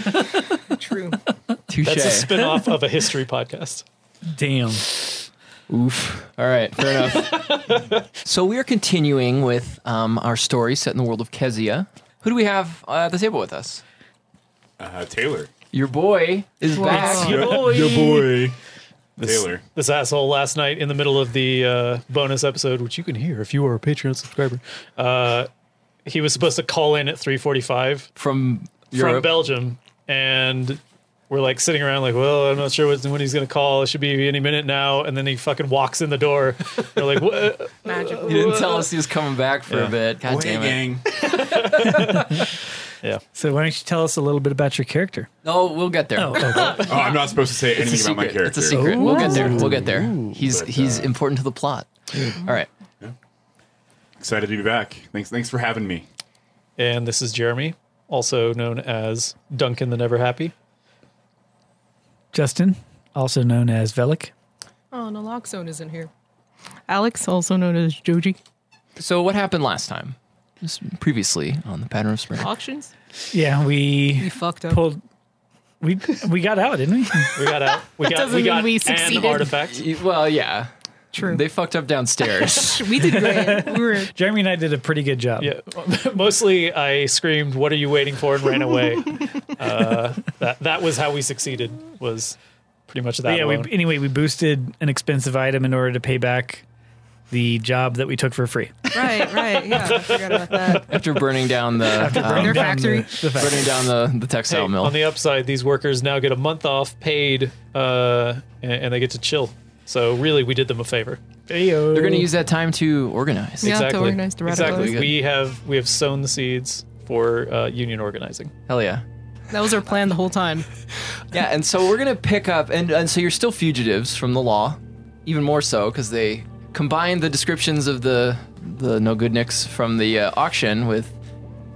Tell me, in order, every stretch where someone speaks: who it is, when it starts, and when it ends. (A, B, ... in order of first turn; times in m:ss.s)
0:00.5-0:01.2 A
0:01.7-0:02.3 B
0:01.8-0:03.8 C
0:04.3-0:04.9 D
0:05.7-0:13.8 B
0:14.8-0:15.5 E
0:15.7-0:17.6 B
0:16.7-0:17.5 A
0:16.8-0:18.5 C
0:17.2-0:18.6 E
0:19.2-0:25.5 C
0:19.2-0:19.6 E
0:26.0-0:28.1 C
0:28.2-0:29.4 B
0:28.9-0:38.9 C
0:37.8-0:38.8 A
0:38.3-0:40.8 B
0:40.2-0:41.1 E
0:41.8-0:42.3 C
0:41.9-0:42.4 D
0:43.3-0:45.3 D
0:45.4-0:46.9 B
0:46.2-0:46.9 D
0:46.8-0:51.1 E
0:47.7-0:52.7 B
0:48.7-0:50.2 D
0:54.2-0:56.0 E
0:56.8-1:00.5 C
1:02.3-1:04.3 D
1:04.9-1:06.1 A
1:06.9-1:08.4 A
1:09.0-1:12.5 B
1:12.4-1:12.9 A
1:13.3-1:15.0 D
1:14.2-1:14.8 A
1:15.8-1:17.3 D
1:17.3-1:19.8 C
1:18.0-1:19.5 A
1:19.4-1:23.1 B
1:21.1-1:21.4 A
1:22.4-1:24.1 A
1:23.2-1:25.5 D
1:25.4-1:32.4 C
1:32.9-1:33.7 C
1:33.2-1:36.6 D
1:37.3-1:39.3 D
1:38.9-1:40.9 A
1:40.9-1:45.0 B
1:41.9-1:43.7 D
1:42.1-1:43.4 A
1:44.5-1:51.2 C
1:51.5-1:52.3 D
1:51.9-1:53.9 B
1:53.6-1:55.1 A
1:53.6-1:58.5 C
1:54.5-1:55.1 B
1:58.7-1:59.0 B
1:59.5-2:00.7 A
2:01.3-2:11.1 B